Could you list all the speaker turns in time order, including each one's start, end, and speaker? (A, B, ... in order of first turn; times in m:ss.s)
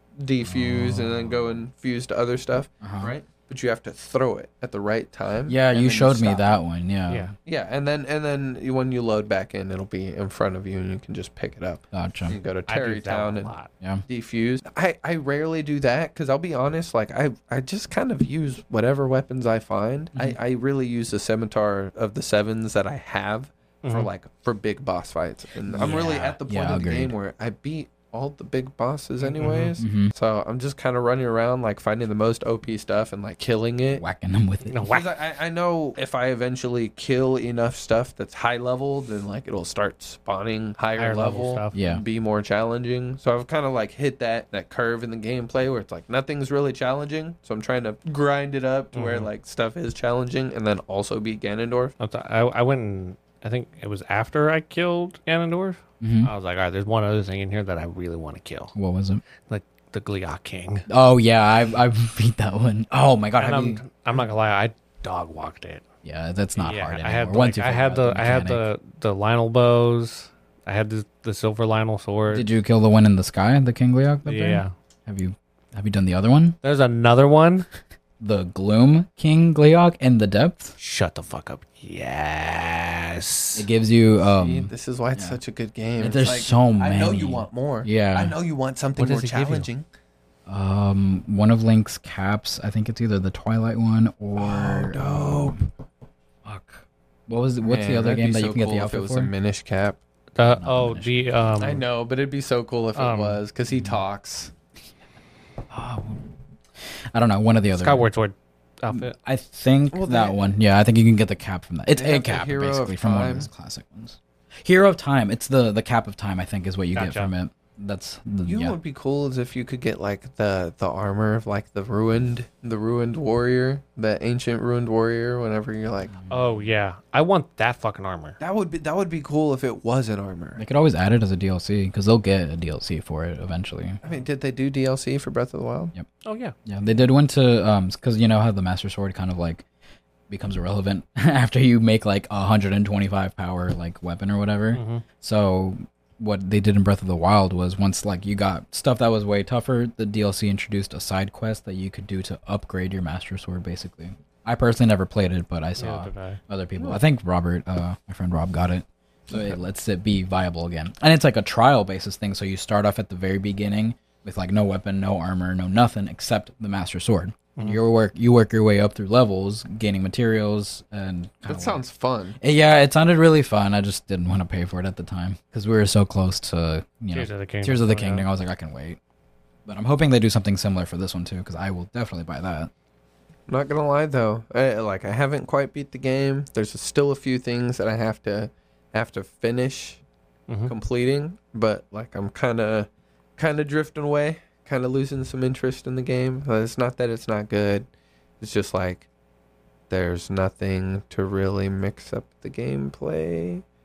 0:00.2-0:06.4 A
0:00.4-0:01.6 B
0:02.8-0:03.1 B
0:05.5-0:07.3 B
0:07.4-0:13.5 A
0:11.9-0:12.4 B
0:12.7-0:13.7 C
0:14.1-0:34.0 A
0:23.8-0:24.1 C
0:25.7-0:27.1 B
0:25.7-0:26.4 C
0:29.2-0:29.8 C
0:29.8-0:30.1 B
0:34.0-0:34.8 B
0:34.6-0:35.1 C
0:34.8-0:51.9 A
0:41.0-0:41.8 C
0:41.7-0:42.0 B
0:48.9-0:49.3 C
0:52.0-0:58.7 C
0:56.0-0:56.3 B
0:58.7-0:59.2 B
0:59.5-1:00.9 C
1:00.9-1:03.8 B
1:03.4-1:05.8 C
1:06.0-1:08.6 B
1:06.5-1:12.5 C
1:12.3-1:16.6 B
1:14.2-1:14.7 C
1:16.6-1:17.7 C
1:18.2-1:20.8 B
1:20.8-1:23.7 C
1:23.5-1:25.4 B
1:24.2-1:29.8 A
1:26.0-1:28.4 B
1:29.0-1:29.7 C
1:30.5-1:35.6 B
1:34.4-1:35.6 A
1:36.4-1:39.3 B
1:37.6-1:40.0 A
1:40.4-1:41.8 C
1:40.4-1:41.3 B
1:41.6-1:44.5 A
1:42.9-1:43.4 C
1:43.7-1:44.0 B
1:45.7-1:46.2 B
1:47.1-1:48.1 B
1:47.8-1:49.1 C
1:48.9-1:58.8 B
1:49.9-1:50.5 A
1:51.9-1:53.5 A
1:56.9-1:57.3 C
1:58.4-2:06.1 A
2:06.1-2:06.7 B
2:06.3-2:08.4 C
2:08.4-2:10.6 A
2:10.6-2:14.0 B
2:14.0-2:15.9 A
2:16.2-2:16.5 C
2:16.6-2:19.6 B
2:20.3-2:51.8 B
2:24.7-2:25.0 C
2:35.8-2:36.4 C
2:51.4-2:52.4 A
2:52.4-2:59.0 B
2:57.1-2:58.2 C
2:59.6-3:02.7 B
3:03.5-3:10.0 A
3:10.5-3:10.7 C
3:10.7-3:17.9 A
3:18.4-3:19.1 A
3:19.9-3:23.6 A